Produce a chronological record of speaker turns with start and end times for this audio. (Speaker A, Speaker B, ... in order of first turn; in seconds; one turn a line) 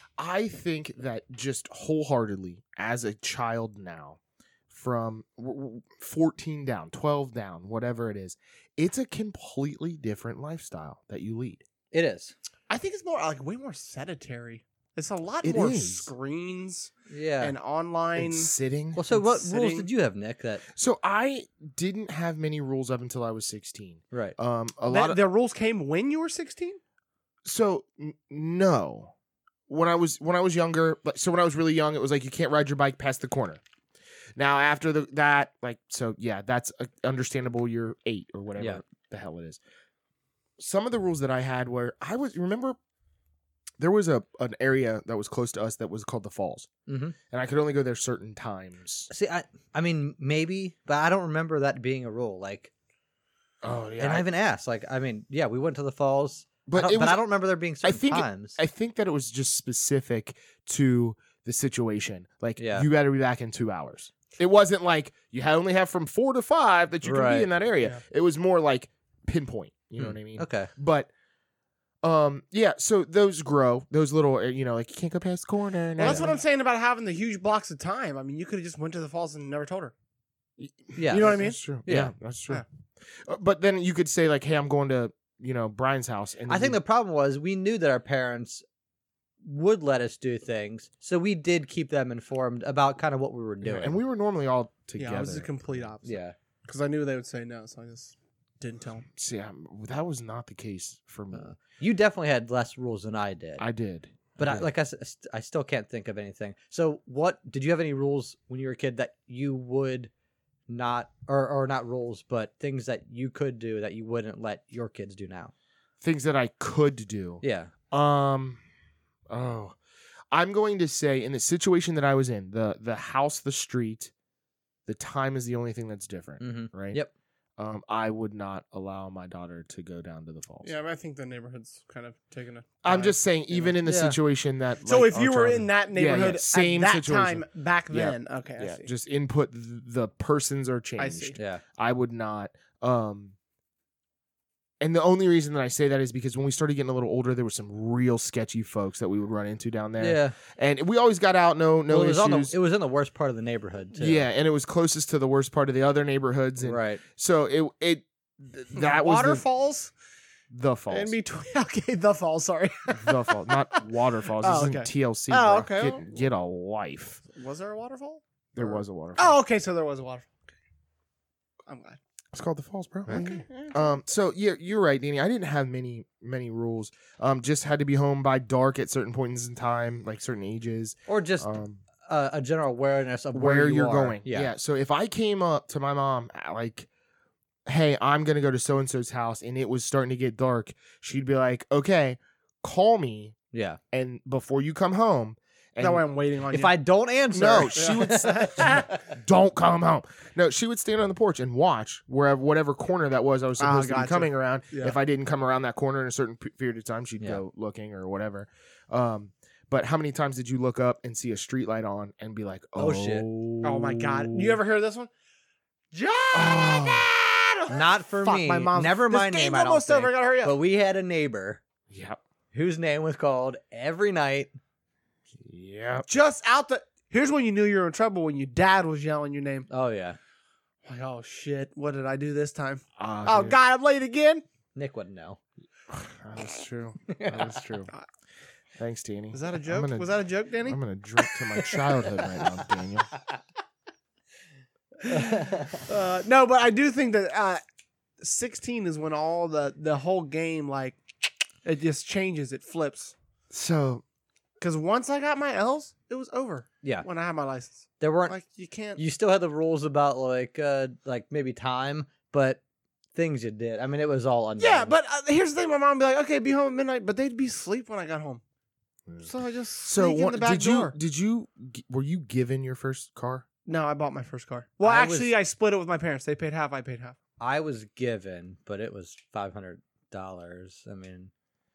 Speaker A: 0.2-11.6
Speaker B: 11.9-12.3
Speaker C: 12.7-18.5
Speaker A: 15.4-16.1
Speaker B: 17.1-17.5
Speaker A: 18.2-19.0
Speaker B: 18.9-20.6
Speaker C: 19.1-19.9
Speaker A: 20.7-25.2
Speaker C: 24.9-26.8
Speaker A: 27.4-29.1
Speaker A: 29.7-33.6
Speaker A: 34.4-39.6
Speaker A: 40.6-42.8
Speaker A: 43.8-46.7
Speaker B: 46.9-47.1
Speaker A: 47.3-49.1
Speaker B: 49.1-52.7
Speaker A: 53.6-54.2
Speaker B: 54.0-58.6
Speaker A: 56.7-57.2
Speaker A: 57.8-71.1
Speaker B: 62.6-62.9
Speaker B: 67.0-67.5
Speaker B: 70.0-70.7
Speaker A: 72.0-76.4
Speaker C: 76.0-79.9
Speaker A: 80.6-86.8
Speaker B: 81.0-82.1
Speaker C: 81.1-81.6
Speaker B: 86.5-88.6
Speaker B: 89.4-94.0
Speaker A: 93.6-95.9
Speaker C: 95.0-99.1
Speaker B: 96.0-96.3
Speaker A: 99.2-101.5
Speaker B: 101.3-103.6
Speaker A: 103.6-104.7
Speaker B: 104.4-110.1
Speaker B: 110.7-115.5
Speaker A: 116.0-118.6
Speaker B: 117.4-117.7
Speaker A: 119.3-119.8
Speaker A: 120.3-124.1
Speaker A: 124.8-127.0
Speaker B: 126.4-127.1
Speaker A: 127.6-130.7
Speaker C: 130.6-133.7
Speaker A: 132.8-143.3
Speaker B: 133.8-134.2
Speaker C: 134.8-138.9
Speaker C: 141.0-141.4
Speaker B: 141.3-141.6
Speaker A: 144.8-152.5
Speaker B: 150.0-150.3
Speaker B: 151.9-154.3
Speaker A: 154.0-159.4
Speaker B: 156.6-157.0
Speaker C: 158.7-159.9
Speaker A: 160.5-161.2
Speaker C: 160.9-163.8
Speaker A: 162.9-167.2
Speaker C: 164.4-166.1
Speaker C: 167.3-170.5
Speaker A: 168.6-169.4
Speaker C: 171.7-172.0
Speaker A: 172.3-181.8
Speaker C: 173.1-174.0
Speaker B: 181.1-181.5
Speaker B: 182.1-184.5
Speaker A: 183.3-186.9
Speaker A: 187.7-193.3
Speaker B: 193.5-193.8
Speaker A: 193.9-196.0
Speaker C: 195.8-196.8
Speaker B: 196.5-199.0
Speaker A: 197.3-214.6
Speaker C: 197.7-198.8
Speaker C: 203.6-204.9
Speaker B: 212.8-213.2
Speaker C: 213.6-215.1
Speaker C: 215.9-220.5
Speaker A: 216.3-217.1
Speaker B: 217.7-221.6
Speaker A: 221.9-222.2
Speaker B: 222.5-224.5
Speaker A: 225.4-226.1
Speaker C: 226.1-229.7
Speaker B: 229.7-230.2
Speaker C: 230.8-234.4
Speaker A: 233.0-233.6
Speaker B: 234.7-235.4
Speaker A: 235.9-237.9
Speaker B: 237.1-237.6
Speaker A: 238.8-240.1
Speaker C: 239.3-240.8
Speaker A: 240.6-243.1
Speaker C: 245.0-247.6
Speaker B: 245.1-245.8
Speaker C: 248.2-251.0
Speaker C: 251.6-253.1
Speaker A: 253.5-254.0
Speaker C: 254.6-259.0
Speaker B: 258.0-258.4
Speaker B: 259.0-262.6
Speaker B: 263.1-264.9
Speaker C: 264.6-268.4
Speaker C: 269.2-270.9
Speaker A: 269.8-273.4
Speaker C: 273.6-277.1
Speaker B: 274.8-275.3
Speaker B: 277.4-281.3